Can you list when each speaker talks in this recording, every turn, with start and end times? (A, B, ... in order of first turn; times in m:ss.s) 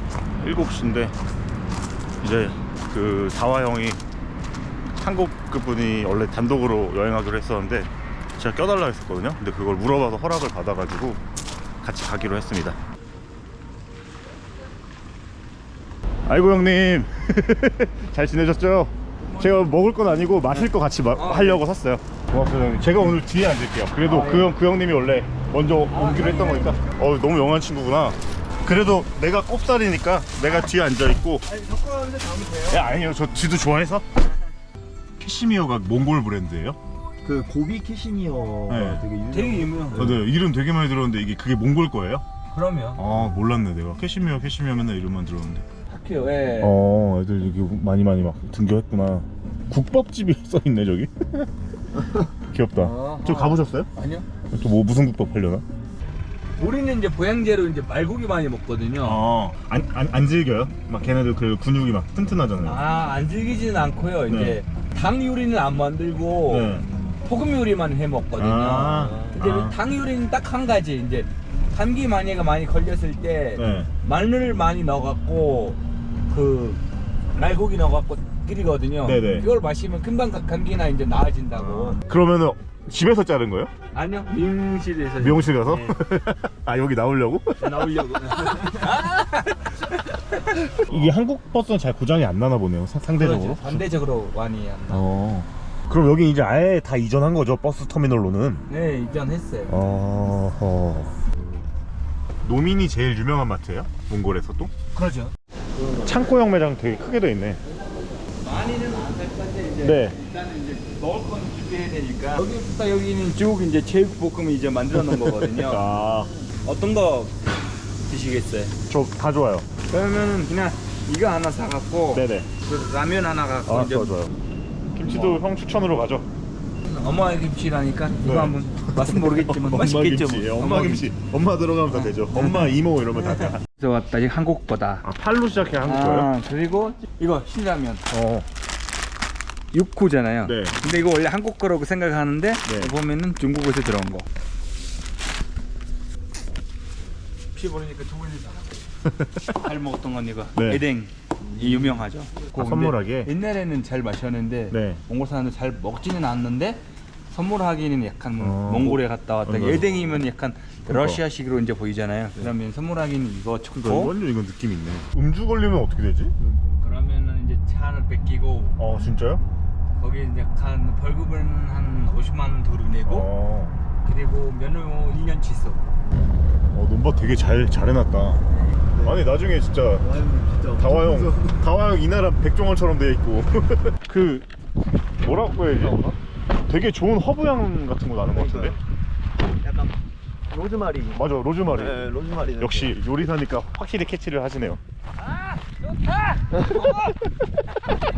0:00.4-0:01.2 A
0:02.2-0:04.0 A
0:05.0-0:11.2 A
0:11.8-0:12.8 A
0:16.3-0:31.5 A
0:19.2-0:19.6 B
0:21.1-0:21.6 B
0:24.0-0:24.5 B
0:25.9-0:26.9 B
0:31.4-0:32.9 B
0:32.7-0:34.0 A
0:35.2-0:36.8 A
0:37.2-0:40.1 C
0:38.7-0:39.1 A
0:39.3-0:40.2 B
0:39.9-0:42.2 A
0:42.5-0:43.0 B
0:43.0-0:45.6 A
0:45.9-0:46.9 B
0:46.6-0:51.5 A
0:52.3-0:53.9 A
0:52.8-0:54.3 B
0:54.5-0:55.6 A
0:56.6-0:59.2 B
0:59.0-1:02.8 A
1:02.6-1:16.8 B
1:04.3-1:04.6 A
1:06.4-1:06.9 A
1:08.4-1:09.8 A
1:13.6-1:13.9 A
1:17.3-1:22.0 B
1:19.0-1:19.5 A
1:21.6-1:23.7 A
1:23.9-1:26.0 B
1:25.2-1:28.3 A
1:27.6-1:30.9 B
1:30.7-1:33.9 A
1:33.2-1:35.1 B
1:34.9-1:38.6 A
1:38.7-1:39.7 B
1:39.7-1:41.2 A
1:42.4-1:44.7 A
1:44.9-1:45.3 B
1:46.0-1:47.6 A
1:48.4-1:55.9 B
1:49.8-1:50.2 A
1:54.9-1:56.4 A
1:56.6-1:57.4 B
1:58.1-1:58.8 B
1:58.9-1:59.7 A
1:59.9-2:04.2 B
2:02.1-2:02.5 A
2:03.7-2:04.3 A
2:04.9-2:06.3 A
2:05.0-2:05.4 B
2:06.8-2:11.1 B
2:08.2-2:13.6 A
2:11.9-2:15.1 B
2:15.0-2:16.3 A
2:15.8-2:18.1 B
2:18.1-2:18.5 A
2:19.7-2:24.3 B
2:20.4-2:20.8 A
2:22.6-2:22.9 A
2:27.5-2:28.8 B
2:29.1-2:29.4 A
2:29.5-2:44.1 B
2:30.6-2:30.8 A
2:32.5-2:33.3 A
2:34.7-2:35.0 A
2:38.4-2:40.1 A
2:40.9-2:41.2 A
2:43.8-2:46.4 A
2:46.8-2:48.8 B
2:48.8-2:49.4 A
2:50.0-2:53.3 B
2:53.1-2:53.8 A
2:54.0-2:55.8 B
2:56.7-2:58.4 A
2:58.5-2:58.8 B
2:59.0-3:00.1 A
3:00.0-3:01.2 C
3:00.8-3:04.5 A
3:05.2-3:06.2 A
3:06.7-3:08.8 A
3:08.3-3:08.7 C
3:09.6-3:09.9 C
3:10.5-3:12.7 C
3:11.1-3:14.8 A
3:15.2-3:17.2 B